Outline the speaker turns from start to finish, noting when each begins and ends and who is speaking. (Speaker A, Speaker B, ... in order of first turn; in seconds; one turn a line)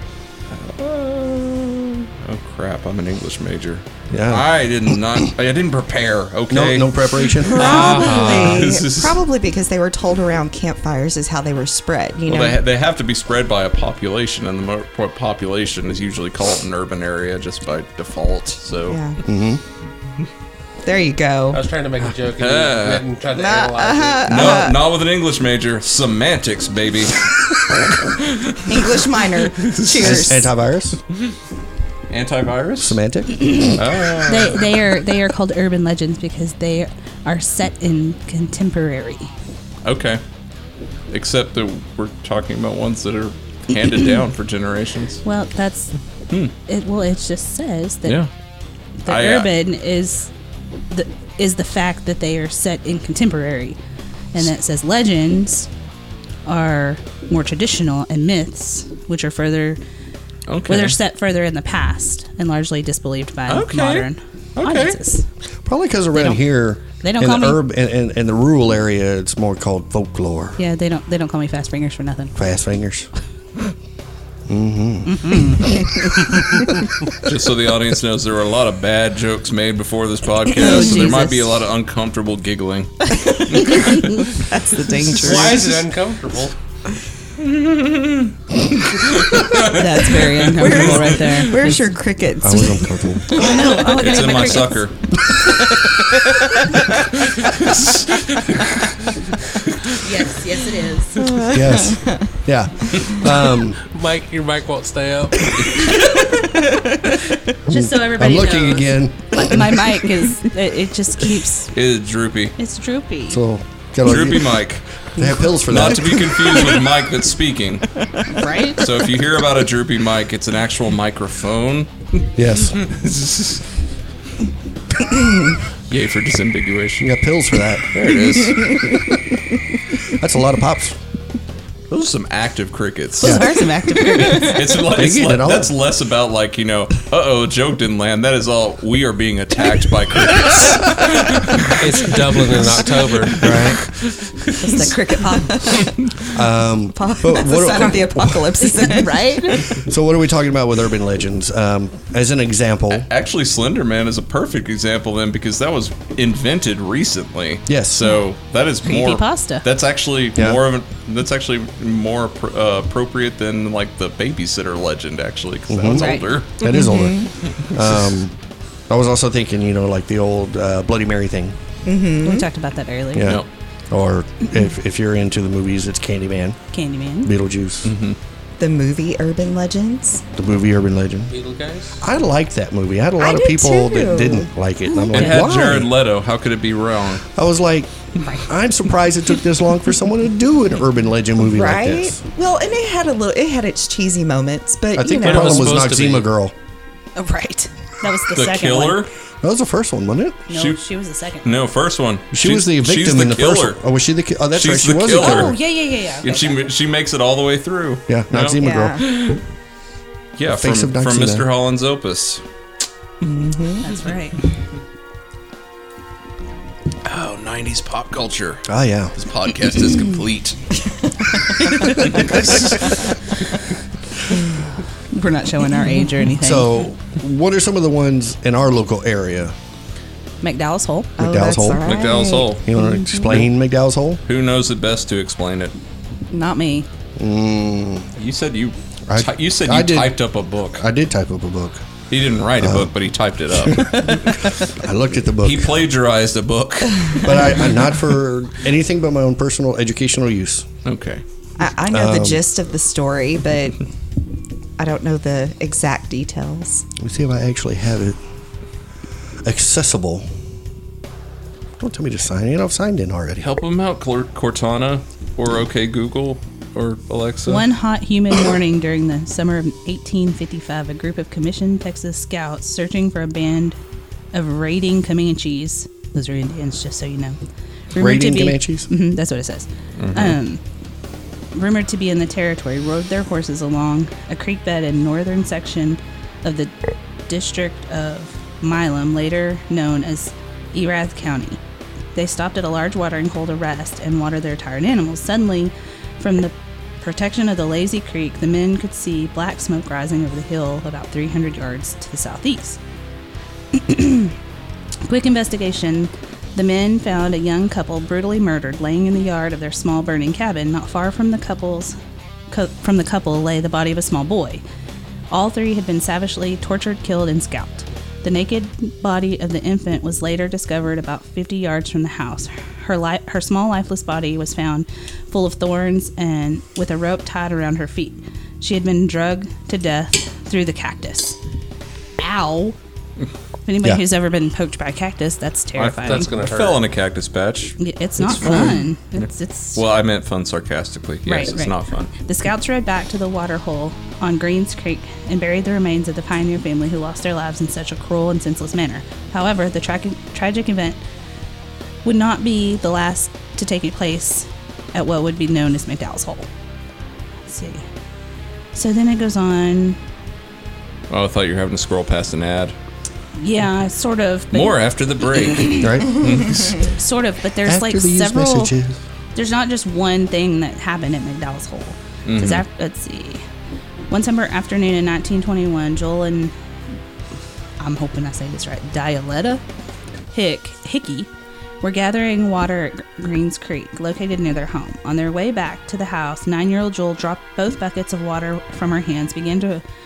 Speaker A: 0.5-9.2
Speaker B: 4.1-4.5
Speaker B: 6.5-7.8
Speaker C: 7.5-12.6
Speaker D: 7.8-8.6
Speaker A: 12.3-19.0
Speaker C: 18.9-19.2
Speaker B: 19.2-19.6
Speaker C: 20.8-21.6
Speaker D: 21.5-24.6
Speaker A: 22.4-23.1
Speaker C: 23.3-24.8
Speaker A: 24.3-30.4
Speaker C: 28.7-30.5
Speaker B: 30.0-31.0
Speaker A: 32.1-33.0
Speaker B: 32.8-33.7
Speaker E: 33.5-33.8
Speaker A: 33.8-34.7
Speaker E: 34.3-39.3
Speaker A: 39.8-40.2
Speaker A: 41.1-45.2
Speaker E: 45.2-46.0
Speaker E: 46.7-48.2
Speaker E: 49.0-50.3
Speaker A: 49.1-49.5
Speaker E: 50.9-53.8
Speaker E: 54.3-55.7
Speaker E: 56.5-59.8
Speaker A: 60.5-61.0
Speaker E: 60.7-65.2
Speaker A: 63.5-65.0
Speaker B: 65.7-70.6
Speaker E: 66.1-66.4
Speaker E: 67.0-67.6
Speaker E: 70.6-72.3
Speaker B: 72.3-73.1
Speaker B: 74.5-76.0
Speaker E: 75.1-75.8
Speaker A: 77.2-84.3
Speaker E: 80.6-81.5
Speaker C: 83.1-85.7
Speaker D: 85.1-86.5
Speaker A: 87.4-88.3
Speaker A: 89.0-91.5
Speaker E: 89.6-91.8
Speaker C: 90.5-93.9
Speaker B: 92.4-93.4
Speaker E: 93.3-94.8
Speaker A: 93.8-95.0
Speaker C: 95.3-97.0
Speaker A: 97.2-99.1
Speaker E: 100.0-101.3
Speaker C: 101.2-102.3
Speaker B: 101.5-103.8
Speaker C: 102.9-103.3
Speaker D: 103.8-106.0
Speaker C: 105.6-107.3
Speaker B: 107.7-109.8
Speaker E: 107.7-111.7
Speaker A: 111.7-112.6
Speaker E: 112.6-113.4
Speaker B: 113.3-116.4
Speaker A: 114.0-114.9
Speaker A: 115.7-117.9
Speaker C: 116.4-116.9
Speaker E: 118.3-118.8
Speaker A: 118.8-123.6
Speaker B: 122.4-122.8
Speaker C: 125.2-125.5
Speaker A: 125.9-127.2
Speaker B: 127.0-127.9
Speaker A: 127.8-129.2
Speaker B: 130.0-131.0
Speaker A: 131.9-133.5
Speaker B: 133.2-135.8
Speaker E: 133.2-134.7
Speaker A: 134.1-144.9
Speaker D: 141.8-143.5
Speaker B: 143.4-143.8
Speaker E: 144.6-145.7
Speaker C: 144.6-146.0
Speaker A: 145.8-146.3
Speaker B: 146.3-148.7
Speaker C: 146.9-149.8
Speaker E: 148.6-149.7
Speaker B: 149.7-153.1
Speaker A: 152.9-166.8
Speaker B: 157.7-158.1
Speaker E: 158.8-159.7
Speaker B: 160.4-160.6
Speaker B: 165.7-168.4
Speaker E: 165.9-166.3
Speaker C: 166.7-167.3
Speaker A: 167.4-167.9
Speaker B: 168.9-171.6
Speaker C: 171.8-172.5
Speaker E: 172.2-173.4
Speaker B: 173.1-176.6
Speaker E: 176.7-177.3
Speaker B: 177.2-177.9
Speaker A: 177.8-178.2
Speaker C: 178.6-180.2
Speaker B: 180.4-181.3
Speaker D: 181.3-182.0
Speaker B: 182.0-185.9
Speaker C: 183.2-184.5
Speaker E: 184.9-185.3
Speaker A: 185.1-187.2
Speaker B: 187.3-192.2
Speaker C: 191.4-195.8
Speaker B: 194.9-196.5
Speaker D: 195.2-196.3
Speaker E: 197.2-199.1
Speaker A: 198.3-199.1
Speaker B: 199.4-200.4
Speaker E: 200.5-201.6
Speaker A: 200.5-200.8
Speaker A: 201.4-203.8
Speaker B: 202.3-205.6
Speaker A: 204.5-205.6
Speaker E: 205.1-206.7
Speaker A: 206.2-209.4
Speaker B: 208.1-209.0
Speaker C: 208.6-209.0
Speaker A: 210.4-212.4
Speaker B: 210.5-211.5
Speaker C: 213.2-213.9
Speaker E: 213.8-214.4
Speaker A: 217.0-220.7
Speaker B: 218.7-219.2
Speaker C: 221.2-222.2
Speaker A: 221.7-223.1
Speaker B: 222.0-222.7
Speaker E: 225.1-226.8
Speaker B: 226.4-229.6
Speaker E: 230.4-231.1
Speaker B: 231.2-231.9
Speaker C: 231.2-232.5
Speaker A: 231.8-232.6
Speaker B: 232.6-234.2
Speaker E: 232.8-233.3
Speaker A: 234.2-235.8
Speaker E: 236.3-236.9
Speaker B: 237.2-238.1
Speaker A: 238.2-240.9
Speaker B: 239.1-240.2
Speaker B: 240.8-241.9
Speaker A: 242.1-244.8
Speaker B: 242.6-242.9
Speaker B: 243.5-245.8
Speaker A: 245.4-247.5
Speaker B: 247.2-250.7
Speaker A: 250.8-251.2
Speaker C: 251.6-253.9
Speaker B: 251.9-252.4
Speaker C: 254.8-256.9
Speaker B: 257.0-258.2
Speaker B: 259.4-260.3
Speaker B: 261.8-263.5
Speaker A: 263.4-267.7
Speaker E: 267.5-273.8
Speaker E: 274.3-277.4
Speaker E: 277.9-280.6
Speaker B: 277.9-278.9
Speaker A: 280.0-280.4
Speaker E: 281.5-286.8
Speaker E: 287.3-291.6
Speaker E: 292.1-302.8
Speaker E: 303.7-304.4
Speaker E: 305.0-312.0
Speaker E: 312.5-314.6
Speaker E: 315.3-331.4
Speaker E: 332.2-332.8
Speaker E: 333.7-336.3
Speaker A: 335.8-342.1
Speaker D: 336.0-336.8
Speaker E: 337.8-339.8
Speaker B: 338.2-338.7
Speaker E: 341.3-351.0
Speaker E: 352.0-356.5
Speaker E: 357.4-357.9
Speaker E: 358.7-360.0
Speaker A: 361.1-362.8
Speaker E: 363.4-364.8
Speaker A: 364.5-366.9
Speaker E: 365.4-365.8
Speaker B: 365.8-366.4
Speaker E: 366.8-368.8
Speaker B: 367.6-369.0
Speaker E: 369.4-373.4
Speaker A: 372.2-372.6
Speaker E: 374.1-376.5
Speaker E: 377.8-379.6
Speaker E: 380.3-381.3
Speaker E: 381.8-389.8